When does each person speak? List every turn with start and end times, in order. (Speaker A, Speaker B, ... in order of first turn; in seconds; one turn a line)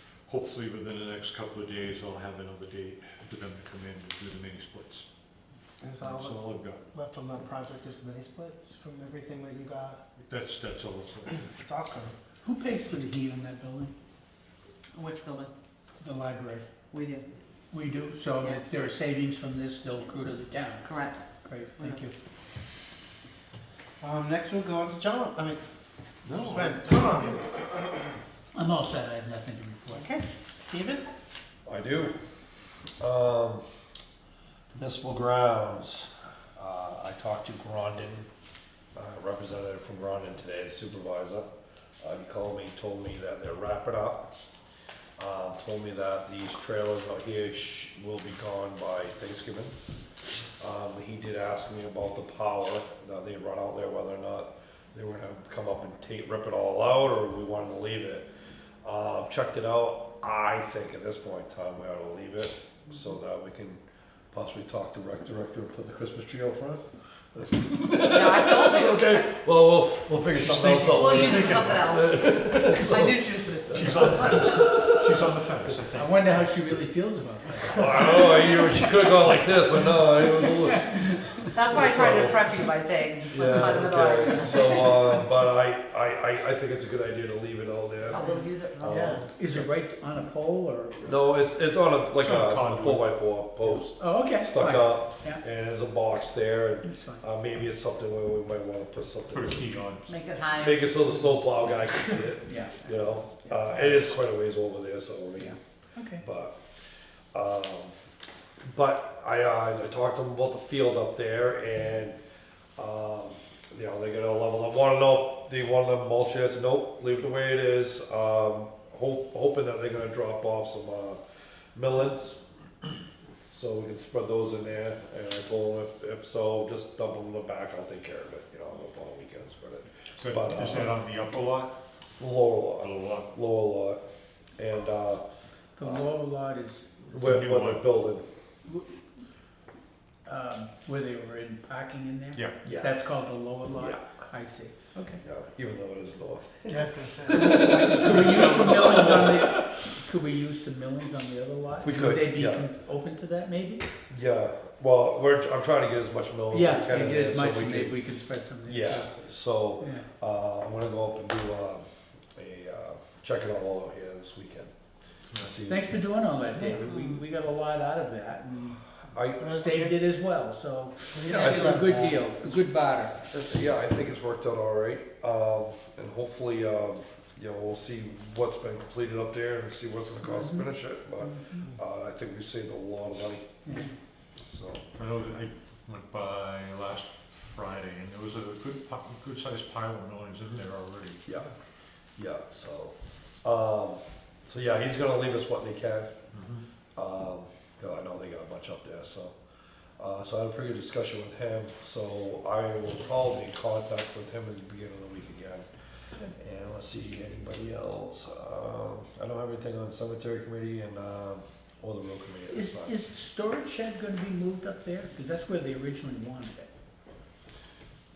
Speaker A: 0.2-5.0
Speaker B: 5.8-10.0
Speaker A: 6.0-6.8
Speaker A: 10.2-11.5
Speaker B: 11.6-12.1
Speaker C: 12.4-13.9
Speaker D: 14.9-15.5
Speaker C: 16.0-16.7
Speaker D: 16.9-17.3
Speaker C: 17.7-22.1
Speaker D: 20.8-21.3
Speaker B: 24.0-25.6
Speaker B: 26.3-27.4
Speaker C: 28.5-30.1
Speaker B: 29.9-31.1
Speaker E: 31.6-32.1
Speaker E: 33.0-33.6
Speaker E: 34.7-38.3
Speaker E: 38.9-41.4
Speaker E: 42.0-44.4
Speaker E: 45.2-49.7
Speaker E: 50.6-58.2
Speaker E: 58.8-63.8
Speaker E: 64.3-75.2
Speaker D: 68.1-69.3
Speaker A: 70.3-71.8
Speaker D: 71.0-74.5
Speaker A: 73.7-76.4
Speaker C: 76.0-78.2
Speaker E: 77.7-82.5
Speaker C: 80.7-81.4
Speaker D: 81.5-85.2
Speaker E: 83.3-89.7
Speaker D: 88.0-89.1
Speaker C: 88.1-88.4
Speaker B: 88.8-89.2
Speaker C: 89.3-91.1
Speaker E: 91.0-99.8
Speaker A: 92.2-93.1
Speaker C: 93.6-95.4
Speaker C: 96.8-97.2
Speaker A: 99.3-100.1
Speaker D: 100.0-101.0
Speaker E: 100.5-105.5
Speaker C: 102.5-104.2
Speaker C: 105.4-106.2
Speaker E: 106.1-106.6
Speaker E: 107.3-107.9
Speaker E: 108.6-112.2
Speaker E: 112.8-121.2
Speaker E: 121.7-122.4
Speaker E: 123.5-130.9
Speaker A: 130.2-131.7
Speaker E: 132.2-134.0
Speaker A: 132.8-133.3
Speaker E: 134.6-135.2
Speaker C: 135.8-136.9
Speaker E: 135.8-136.1
Speaker A: 137.1-137.8
Speaker E: 137.1-138.2
Speaker C: 138.7-138.9
Speaker C: 140.2-145.2
Speaker E: 142.6-143.0
Speaker E: 143.7-144.1
Speaker E: 145.2-149.4
Speaker B: 146.7-149.0
Speaker C: 147.4-153.9
Speaker A: 148.0-148.7
Speaker E: 151.8-152.7
Speaker E: 154.1-158.0
Speaker C: 156.5-159.1
Speaker E: 158.6-161.8
Speaker C: 159.8-160.1
Speaker E: 162.3-164.7
Speaker E: 165.4-166.0
Speaker C: 165.7-168.8
Speaker E: 166.5-166.8
Speaker D: 166.8-167.2
Speaker E: 169.1-169.7
Speaker B: 169.4-169.9
Speaker C: 169.5-173.3
Speaker B: 171.1-172.2
Speaker E: 171.2-171.9
Speaker D: 171.3-171.6
Speaker E: 173.3-183.5
Speaker C: 180.3-180.7
Speaker C: 183.6-183.9
Speaker E: 184.5-184.8
Speaker A: 184.9-191.2
Speaker E: 191.2-191.5
Speaker E: 192.2-196.1
Speaker A: 196.3-196.7
Speaker E: 196.9-199.3
Speaker E: 200.0-205.7
Speaker E: 206.3-212.9
Speaker C: 212.5-216.7